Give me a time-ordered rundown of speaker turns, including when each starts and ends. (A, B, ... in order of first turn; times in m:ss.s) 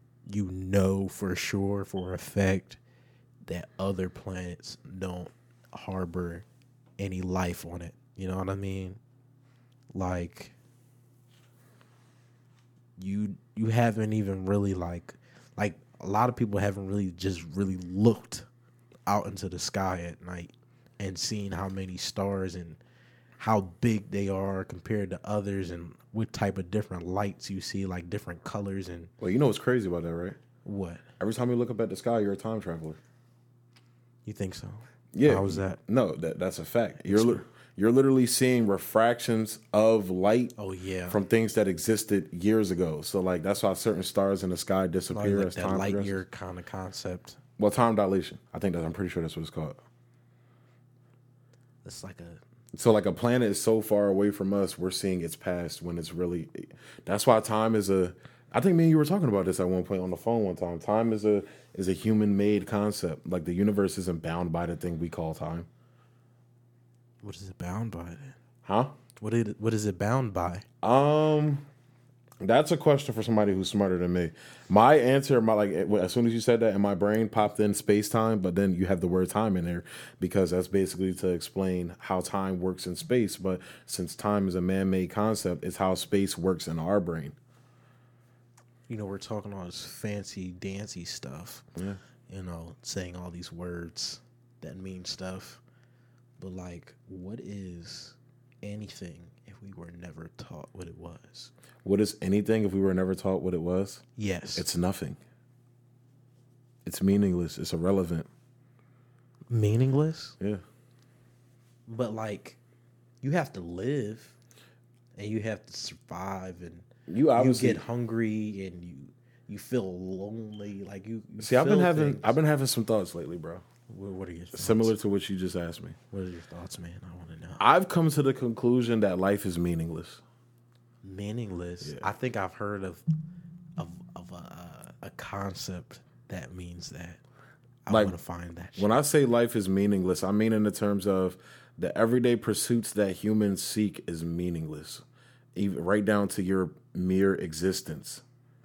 0:00.3-0:02.8 A
0:03.5-0:06.4 A
0:07.0-0:09.0 A
0:09.9-0:10.5 A
0:13.0-0:18.5 A
0:19.1-0:22.8 A
0:23.4-0:29.1 A
0:29.2-0:30.4 B
0:30.6-0:31.0 A
0:31.2-0:33.0 B
0:34.3-0:35.8 A
0:35.1-0:40.5 B
0:37.0-0:37.4 A
0:40.6-0:41.2 A
0:41.1-0:46.2 B
0:45.1-0:47.4 A
0:47.6-0:49.8 B
0:51.8-0:52.4 A
0:52.8-1:05.7 B
1:07.2-1:08.4 A
1:08.6-1:08.9 B
1:09.2-1:10.6 A
1:10.8-1:11.6 B
1:12.4-1:27.4 B
1:28.9-1:31.7 A
1:32.3-1:35.6 A
1:36.4-1:41.5 A
1:41.8-1:44.0 B
1:44.2-1:44.7 A
1:44.6-1:45.2 B
1:46.8-1:48.3 B
1:49.5-1:50.4 A
1:51.9-1:52.6 A
1:53.2-1:54.4 A
1:55.2-1:56.9 A
1:57.1-1:57.8 B
1:57.4-2:02.4 A
2:01.4-2:03.6 B
2:03.9-2:05.0 A
2:04.6-2:06.0 B
2:06.1-2:07.6 A
2:07.6-2:10.2 B
2:11.0-2:13.0 A
2:11.8-2:12.1 B
2:13.8-2:17.2 A
2:17.9-2:18.9 A
2:17.9-2:18.2 B
2:18.8-2:25.0 B
2:25.6-2:28.2 B